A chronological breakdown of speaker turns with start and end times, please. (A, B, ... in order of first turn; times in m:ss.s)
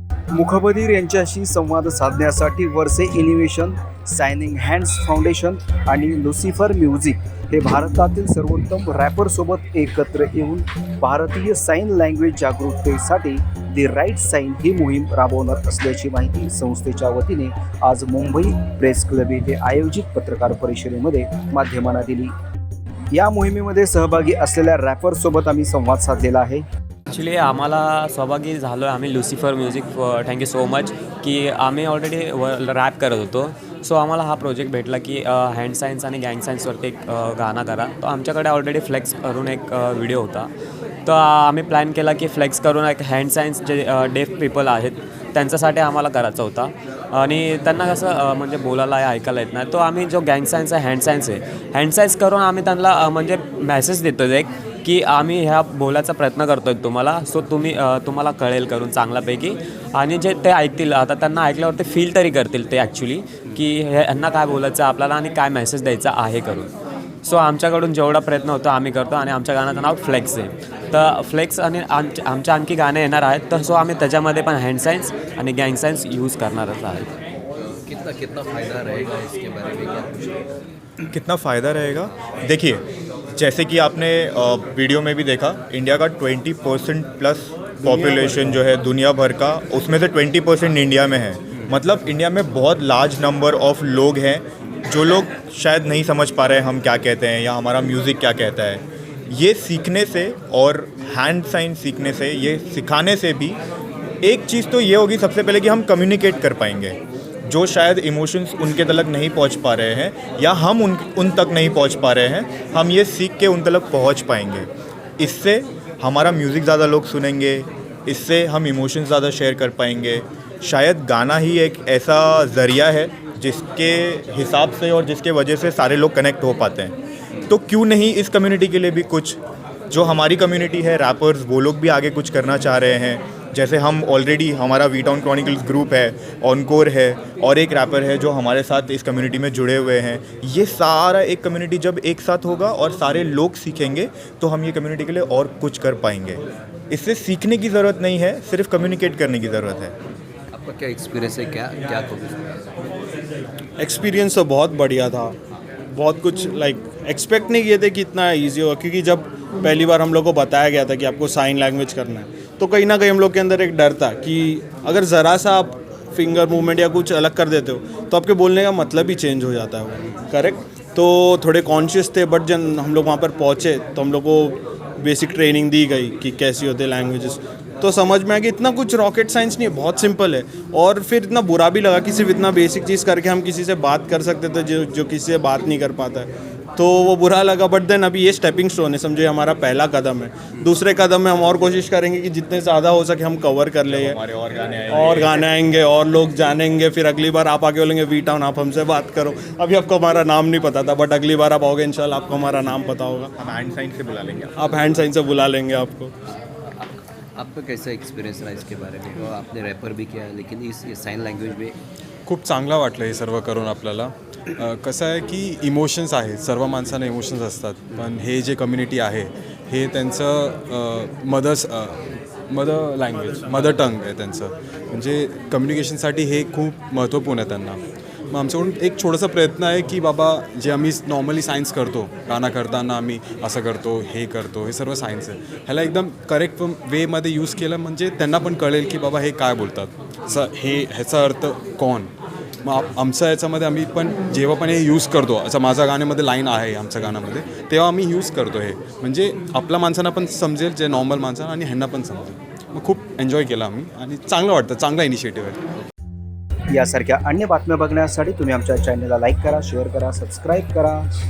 0:00.3-0:22.3 A
0:23.1-0:26.6 A
0:27.1-0:40.5 B
0:41.0-1:06.7 B
1:07.2-1:17.1 B
1:17.6-1:20.4 C
1:21.1-1:22.8 D
1:23.4-1:43.6 D
1:44.2-2:29.9 D
2:30.5-2:32.6 C
2:33.8-2:35.4 E
2:35.9-3:14.2 E
3:13.8-3:15.4 D
3:14.9-3:23.3 E
3:23.4-3:24.5 D
3:24.6-3:26.1 E
3:26.7-3:31.8 C
3:32.3-3:42.0 F
3:42.5-3:47.8 F
3:48.4-4:02.1 F
4:02.7-4:15.6 F
4:16.7-4:21.1 A